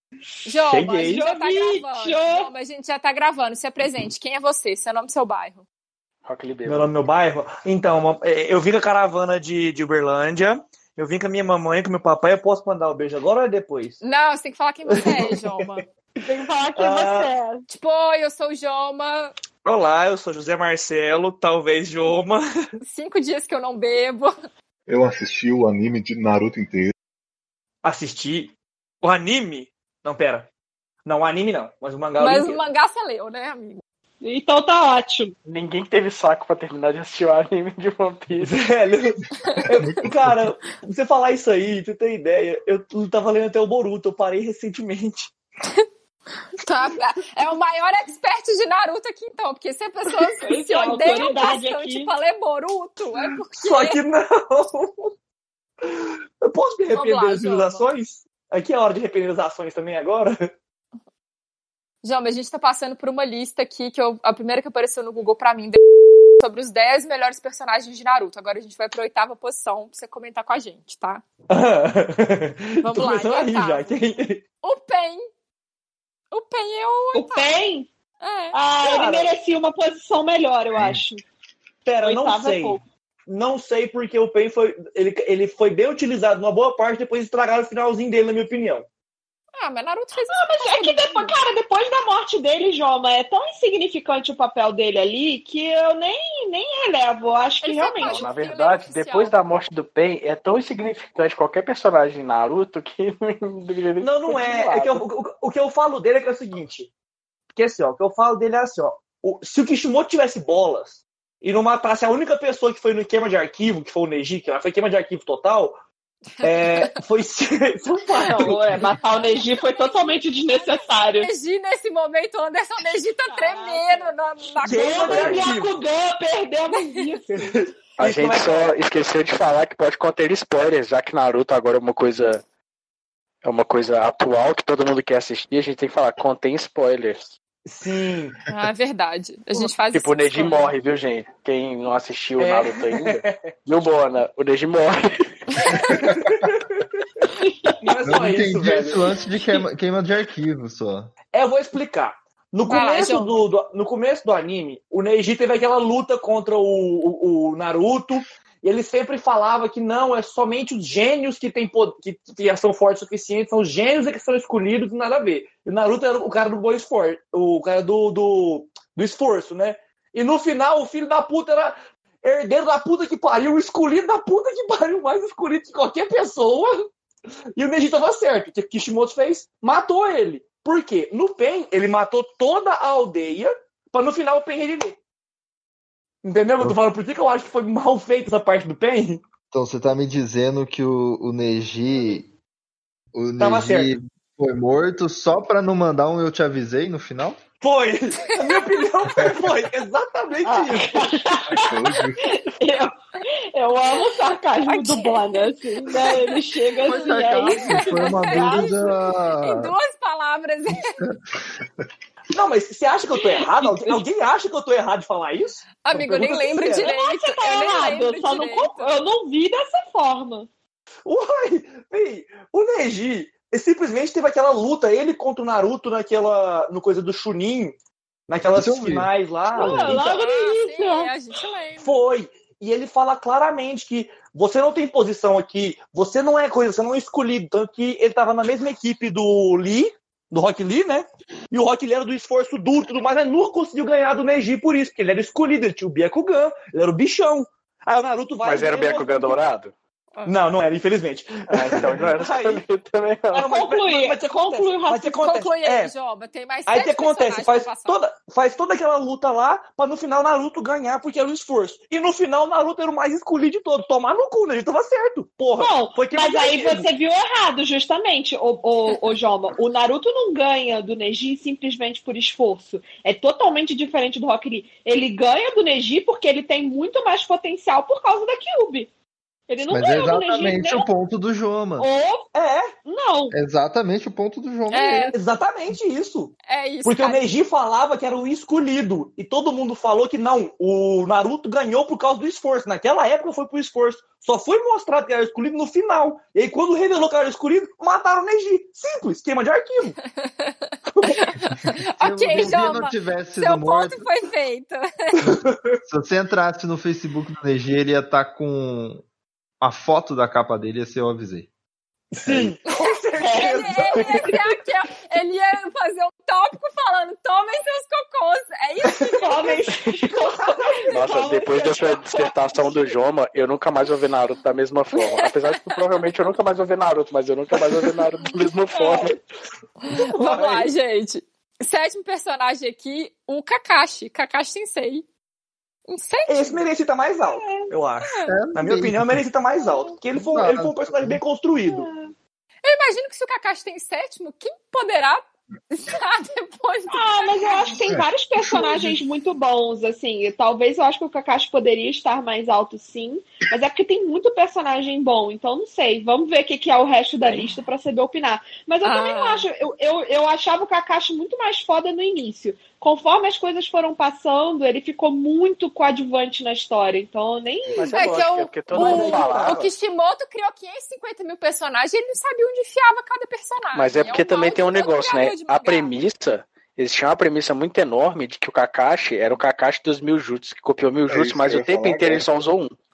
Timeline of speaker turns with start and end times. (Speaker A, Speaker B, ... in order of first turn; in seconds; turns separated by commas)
Speaker A: 0.5-5.6, Speaker B: 0.6-1.2, Speaker C: 1.1-2.5, Speaker D: 6.2-6.9, Speaker B: 6.7-14.0, Speaker A: 14.0-15.8, Speaker B: 15.0-15.3, Speaker C: 16.2-17.7, Speaker B: 16.8-17.3, Speaker A: 17.7-19.3, Speaker B: 19.6-22.4, Speaker A: 22.8-24.3, Speaker E: 24.9-26.9, Speaker B: 27.8-30.5, Speaker B: 31.1-32.6, Speaker A: 32.2-33.8, Speaker C: 34.2-35.3, Speaker D: 35.5-38.6, Speaker B: 38.4-45.3, Speaker E: 39.5-40.4, Speaker A: 46.6-54.0, Speaker C: 50.4-52.1, Speaker B: 53.6-55.1, Speaker B: 55.8-60.5, Speaker A: 56.9-57.9, Speaker A: 62.0-65.8, Speaker A: 66.4-71.2, Speaker B: 71.5-74.4, Speaker A: 72.8-74.0, Speaker A: 74.6-75.3, Speaker A: 76.3-77.5, Speaker C: 77.1-77.9, Speaker A: 78.2-78.5, Speaker C: 78.5-81.2, Speaker B: 78.8-79.3, Speaker E: 80.7-81.0, Speaker B: 81.8-88.9, Speaker C: 82.0-82.8, Speaker A: 89.5-91.3, Speaker C: 90.3-98.2, Speaker A: 97.6-99.3, Speaker D: 98.0-105.0, Speaker B: 104.0-106.9, Speaker B: 107.5-115.8, Speaker A: 116.4-117.0, Speaker B: 116.4-118.7, Speaker C: 118.1-121.3, Speaker A: 119.1-120.0, Speaker A: 120.5-125.4, Speaker C: 123.2-127.5, Speaker B: 124.6-125.7, Speaker D: 125.1-125.5, Speaker B: 127.3-128.8, Speaker D: 128.0-132.4, Speaker D: 133.4-137.3, Speaker B: 137.7-138.4, Speaker A: 138.5-140.7, Speaker D: 139.9-145.8, Speaker B: 142.4-143.4, Speaker B: 146.0-147.0, Speaker C: 147.4-147.7, Speaker B: 147.8-149.1, Speaker F: 148.0-151.1, Speaker B: 151.3-176.9, Speaker A: 152.7-153.4, Speaker B: 177.6-185.0, Speaker B: 186.2-189.2, Speaker F: 189.5-192.2, Speaker F: 193.1-197.4, Speaker B: 193.4-193.9, Speaker B: 197.6-201.1, Speaker A: 198.3-198.6, Speaker C: 200.4-208.7, Speaker E: 201.5-202.3, Speaker A: 204.6-205.4, Speaker F: 206.8-209.7, Speaker A: 207.0-211.0, Speaker B: 212.3-216.9, Speaker C: 213.2-214.0, Speaker A: 215.8-218.9, Speaker C: 216.8-220.5, Speaker B: 221.1-227.7, Speaker B: 228.3-230.0, Speaker F: 228.5-230.0, Speaker C: 229.5-231.1, Speaker A: 229.9-232.0, Speaker B: 231.8-249.4, Speaker D: 248.4-249.7, Speaker B: 250.2-252.6, Speaker D: 251.5-253.5, Speaker E: 251.8-252.1, Speaker B: 253.3-255.9, Speaker C: 253.4-255.1, Speaker A: 255.1-258.0, Speaker B: 256.7-266.9, Speaker C: 265.6-278.9, Speaker C: 279.5-280.9, Speaker F: 279.7-281.9, Speaker C: 281.8-282.3, Speaker B: 282.3-282.7, Speaker C: 282.8-283.3, Speaker F: 283.3-285.1, Speaker A: 284.7-285.1, Speaker B: 285.1-286.3, Speaker A: 286.5-287.2, Speaker B: 286.8-300.0, Speaker A: 300.2-305.3, Speaker F: 302.0-304.1, Speaker B: 305.3-305.7, Speaker F: 305.8-309.0, Speaker F: 309.6-311.5, Speaker B: 312.1-314.4, Speaker F: 312.2-312.6, Speaker A: 312.7-319.4, Speaker C: 313.2-313.7, Speaker C: 319.2-322.9, Speaker B: 319.7-321.1, Speaker D: 320.9-329.2, Speaker A: 325.0-325.3, Speaker C: 328.7-329.1, Speaker A: 329.8-335.1, Speaker B: 330.1-330.7, Speaker A: 335.9-336.6, Speaker B: 336.3-341.9, Speaker C: 337.2-337.7, Speaker A: 338.0-338.3, Speaker F: 338.2-339.2, Speaker C: 339.6-340.0, Speaker F: 340.1-341.2, Speaker C: 341.6-342.1, Speaker A: 342.6-347.7, Speaker C: 346.9-367.9, Speaker E: 347.9-349.0, Speaker A: 358.8-359.5, Speaker D: 367.7-369.7, Speaker A: 367.9-375.9, Speaker B: 368.7-369.7, Speaker D: 373.7-382.7, Speaker E: 381.1-382.3